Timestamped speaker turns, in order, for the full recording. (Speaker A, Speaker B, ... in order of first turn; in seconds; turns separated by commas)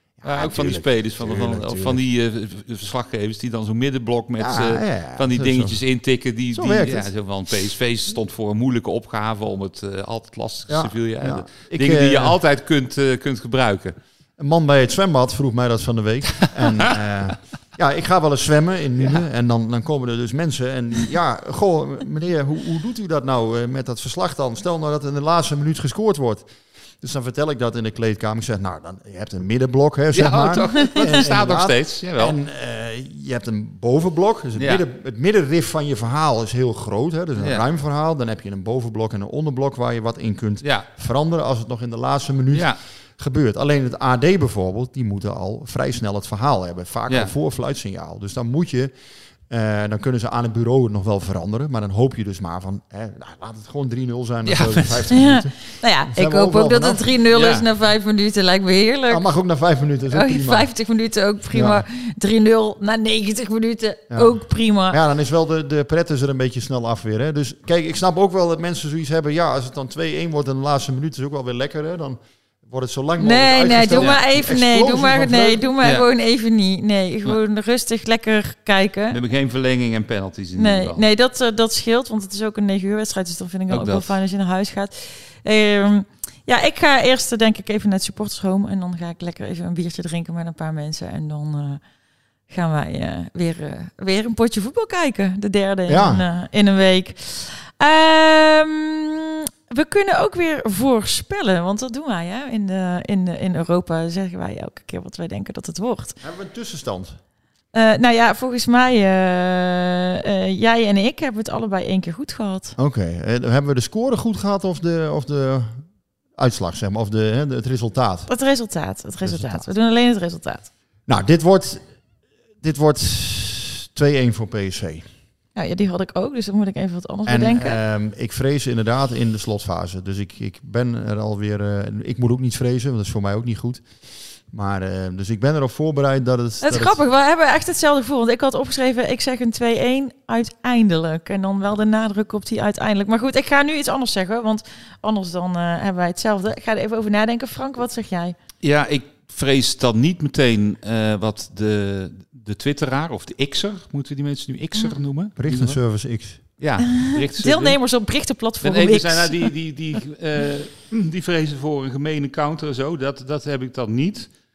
Speaker A: 0.2-2.0, Speaker B: 0.2-13.9, Speaker A: 4.4-5.8, Speaker A: 6.5-7.1, Speaker A: 10.7-12.4, Speaker A: 14.4-48.9, Speaker B: 16.6-16.9, Speaker B: 30.1-32.3, Speaker B: 34.6-34.8, Speaker B: 37.4-37.6, Speaker B: 42.5-42.8, Speaker B: 47.1-47.3, Speaker A: 49.5-57.1, Speaker B: 54.4-55.0, Speaker C: 55.1-59.2, Speaker B: 57.3-57.6, Speaker A: 59.1-60.7, Speaker C: 60.1-65.0, Speaker A: 61.5-61.8, Speaker A: 64.1-75.7, Speaker C: 73.2-79.2, Speaker B: 79.1-81.0, Speaker C: 80.5-91.8, Speaker B: 83.7-84.2, Speaker C: 92.5-106.2, Speaker A: 95.9-96.2, Speaker A: 106.2-107.2, Speaker C: 107.7-112.8, Speaker A: 112.8-118.3, Speaker C: 118.3-120.7, Speaker A: 119.2-119.6, Speaker A: 121.1-121.9, Speaker A: 122.6-125.1, Speaker C: 125.5-127.8, Speaker A: 127.2-137.0, Speaker C: 136.6-148.3, Speaker B: 148.6-155.8, Speaker A: 155.4-156.4, Speaker B: 156.6-157.8, Speaker C: 157.0-159.5, Speaker B: 158.6-164.3